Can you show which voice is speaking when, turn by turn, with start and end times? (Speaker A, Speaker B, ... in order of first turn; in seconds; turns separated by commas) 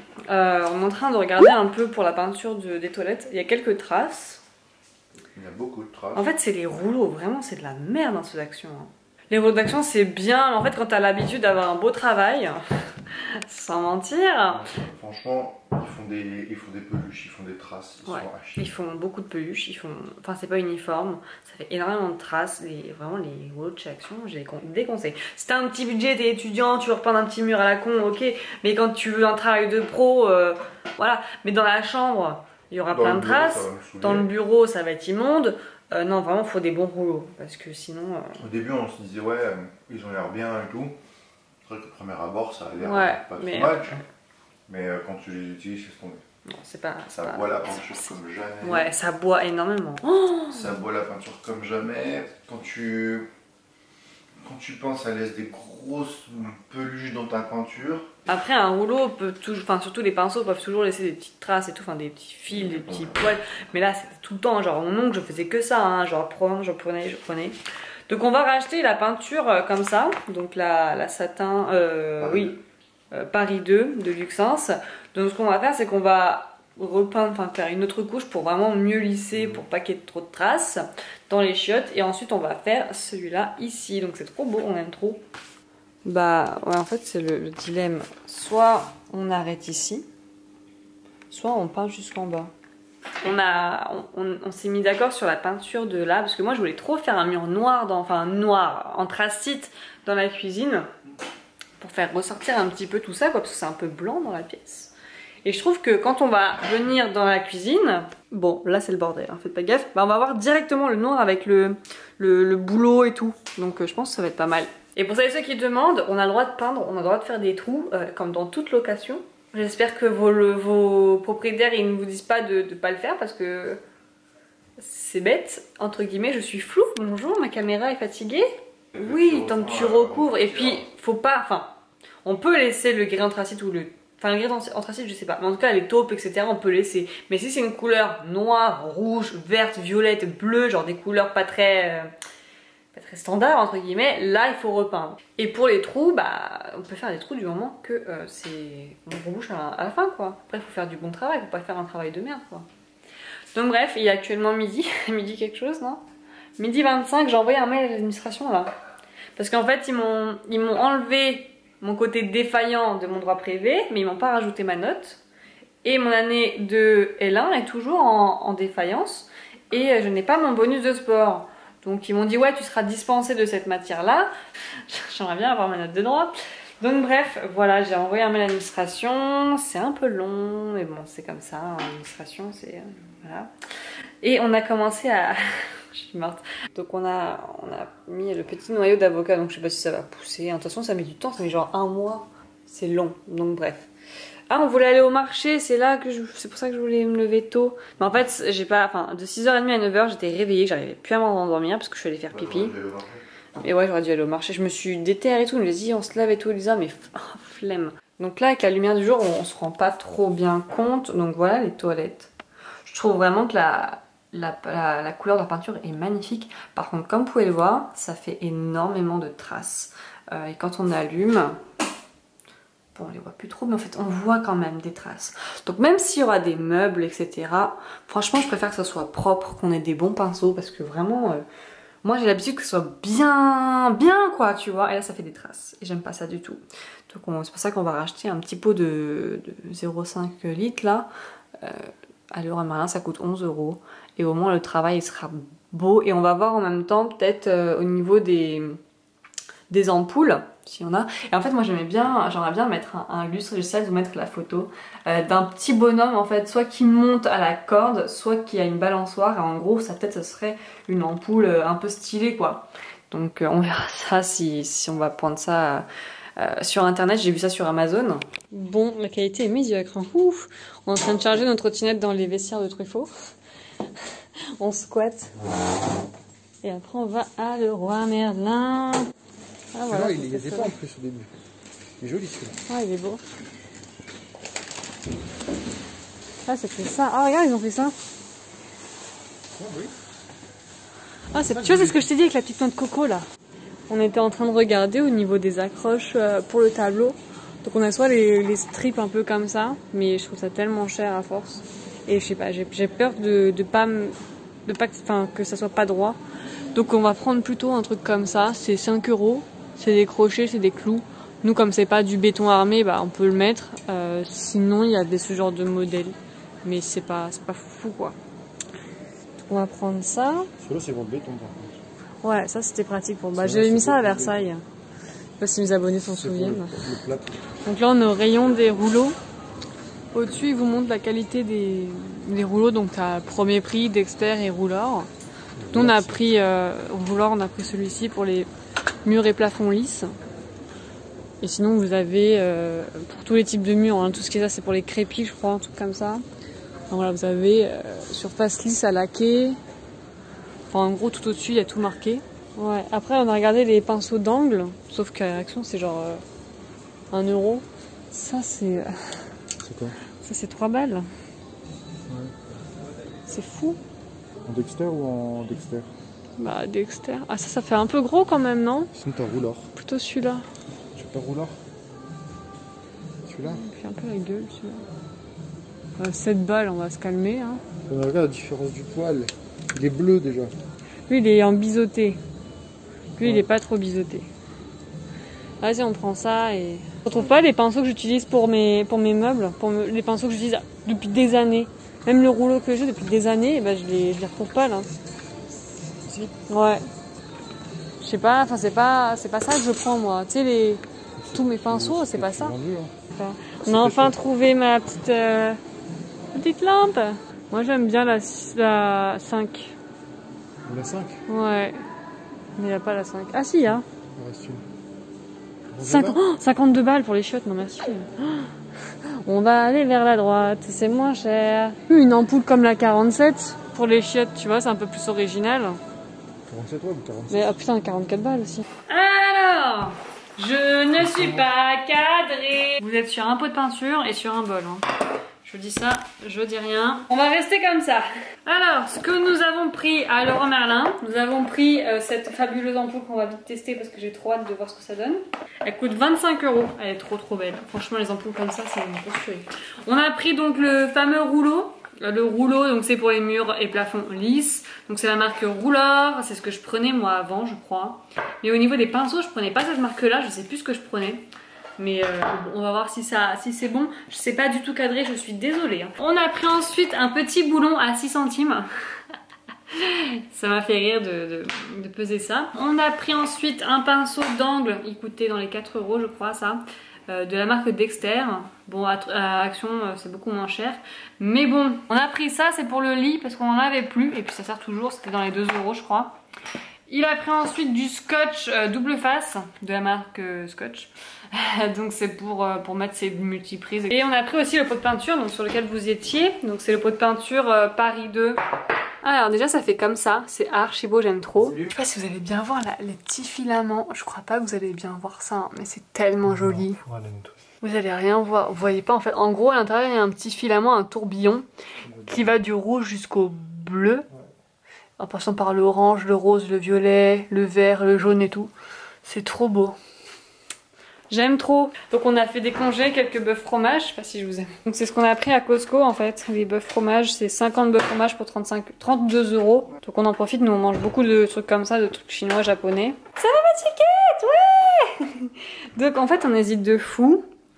Speaker A: 0.3-4.4, Speaker B: 5.3-6.3, Speaker A: 6.2-14.7, Speaker B: 14.5-18.7, Speaker A: 18.1-38.4, Speaker B: 32.9-34.3, Speaker B: 38.4-41.0, Speaker B: 41.6-44.0, Speaker A: 42.8-44.0, Speaker B: 44.7-46.2, Speaker A: 46.5-50.7, Speaker B: 47.1-48.9, Speaker B: 50.5-53.3, Speaker B: 54.4-58.1, Speaker A: 58.3-67.6, Speaker B: 62.5-63.2, Speaker A: 68.1-72.6, Speaker B: 72.2-72.6, Speaker A: 73.1-85.2, Speaker A: 86.0-90.1, Speaker A: 91.3-92.5, Speaker A: 93.2-100.9, Speaker A: 101.8-123.8, Speaker A: 124.8-131.7, Speaker B: 128.9-130.8, Speaker A: 132.2-142.1, Speaker A: 142.9-152.7, Speaker A: 153.5-156.0, Speaker A: 156.6-158.7, Speaker A: 159.4-165.2, Speaker A: 165.8-174.3, Speaker A: 174.9-183.5, Speaker A: 184.2-193.9, Speaker A: 194.5-202.8, Speaker B: 202.3-203.2, Speaker A: 203.6-212.3, Speaker A: 212.8-221.6, Speaker A: 222.9-231.4, Speaker A: 232.0-241.1, Speaker A: 241.6-248.8, Speaker A: 249.7-265.9, Speaker A: 266.4-273.1, Speaker A: 274.6-275.3, Speaker A: 276.6-279.1, Speaker A: 279.7-280.8, Speaker C: 279.9-281.3, Speaker B: 280.4-281.3, Speaker C: 282.0-282.4, Speaker B: 282.0-282.6, Speaker A: 282.7-283.2, Speaker A: 286.5-287.9, Speaker C: 289.6-289.9, Speaker A: 291.3-293.2, Speaker C: 291.5-292.0, Speaker A: 293.9-306.2, Speaker A: 306.7-318.2, Speaker A: 319.4-320.5, Speaker C: 320.6-321.6, Speaker B: 320.8-321.7, Speaker A: 322.2-324.6, Speaker C: 323.4-324.5, Speaker A: 325.4-326.9, Speaker C: 326.1-327.2, Speaker A: 327.6-329.2, Speaker A: 330.1-335.1, Speaker C: 335.7-336.2, Speaker A: 335.7-338.5, Speaker A: 339.1-340.1, Speaker A: 341.4-346.2, Speaker A: 346.9-349.6, Speaker A: 350.7-356.2, Speaker A: 357.1-359.2, Speaker B: 359.6-359.9, Speaker A: 360.2-361.1, Speaker A: 363.3-363.8, Speaker B: 364.5-365.9, Speaker C: 364.5-365.9, Speaker A: 366.4-368.9, Speaker B: 369.0-369.7, Speaker A: 369.8-370.5, Speaker C: 371.0-371.5, Speaker B: 371.0-371.5, Speaker C: 373.3-373.6, Speaker A: 373.4-374.8, Speaker A: 376.0-377.6, Speaker C: 377.9-380.5, Speaker B: 377.9-380.5, Speaker A: 381.1-382.2, Speaker A: 383.2-384.3, Speaker A: 385.6-394.9, Speaker A: 396.4-396.8, Speaker A: 398.0-402.6, Speaker C: 401.3-402.9, Speaker B: 402.5-402.9, Speaker A: 403.1-405.6, Speaker C: 403.7-404.1, Speaker A: 406.3-409.8, Speaker C: 410.7-411.2, Speaker A: 411.3-411.8, Speaker A: 412.6-413.9, Speaker C: 414.2-414.6, Speaker B: 414.2-414.5, Speaker C: 415.7-416.2, Speaker A: 415.8-418.5, Speaker A: 419.1-425.8, Speaker C: 426.5-427.6, Speaker A: 427.3-434.8, Speaker C: 431.0-431.4, Speaker A: 435.4-461.2, Speaker A: 461.8-468.7, Speaker A: 469.7-486.2, Speaker A: 486.9-498.4, Speaker A: 499.0-506.8, Speaker C: 506.4-507.1, Speaker B: 506.9-507.3, Speaker A: 507.6-511.4, Speaker A: 512.0-514.1, Speaker A: 515.0-518.5, Speaker A: 519.0-519.8, Speaker A: 521.1-537.3